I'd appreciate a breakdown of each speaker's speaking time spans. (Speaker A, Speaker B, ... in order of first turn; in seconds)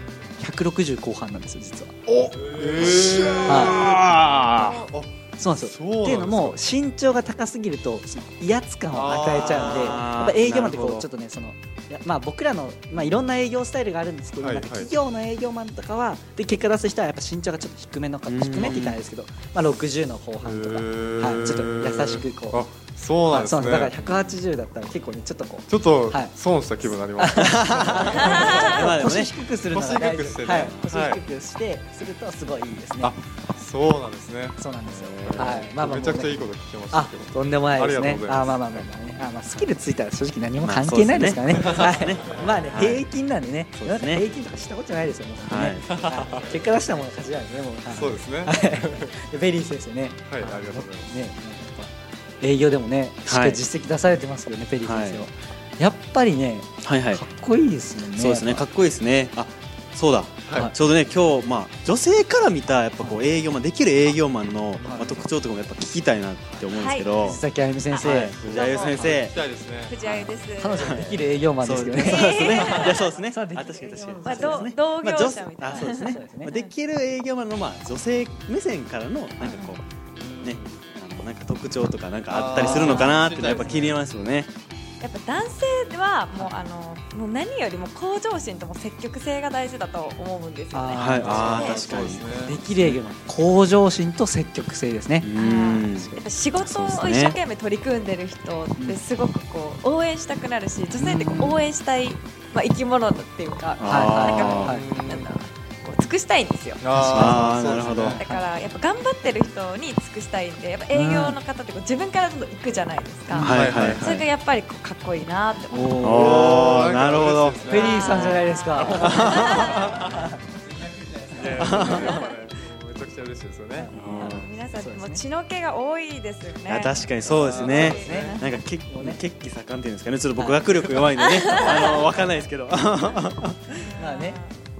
Speaker A: 0.4-1.9, 3.4-3.8, 5.4-22.6, 23.3-26.3, 27.1-33.1, 34.6-36.4, 36.9-58.7, 64.8-65.2, 67.2-68.4, 68.9-69.2, 70.6-74.7, 75.6-76.5, 82.6-83.2, 90.7-96.2, 101.0-101.5, 103.8-104.9, 106.9-108.5, 110.9-111.4, 115.7-116.9, 117.7-120.3, 123.8-125.2, 127.3-129.2, 130.3-131.1, 133.9-134.4
Speaker B: 2.1-6.6, 8.9-10.0, 14.4-14.9, 20.4-23.9, 25.7-29.0, 29.7-31.2, 33.0-38.8, 45.9-46.3, 47.9-49.1, 50.3-51.1, 64.8-65.1, 68.5-69.9, 80.2-80.6, 82.3-84.0, 91.2-92.6, 104.6-105.3, 106.8-108.2, 113.4-114.2, 116.1-120.3, 121.0-123.9, 127.3-128.1
Speaker C: 2.2-4.8, 9.4-11.1, 18.3-19.0, 27.4-29.3, 30.4-30.9, 35.2-35.5, 40.6-43.0, 43.8-44.2, 45.5-45.9, 53.2-53.6, 54.8-55.2, 56.8-57.2, 58.1-67.4, 68.0-69.4, 70.0-79.8, 80.4-84.5, 90.9-93.0, 95.2-97.4, 101.2-101.5, 103.8-104.7, 107.1-108.2, 113.4-114.1, 116.0-118.4, 118.9-119.5, 121.5-122.1, 124.0-124.5, 126.7-133.7
Speaker D: 4.5-4.9, 66.7-67.1, 68.4-69.1, 69.8-71.0, 72.0-73.1, 74.1-76.7, 79.4-79.8, 85.0-92.1, 95.3-106.8, 108.2-116.0, 117.7-120.0, 121.7-122.3, 124.0-128.6, 131.2-132.2, 133.7-134.6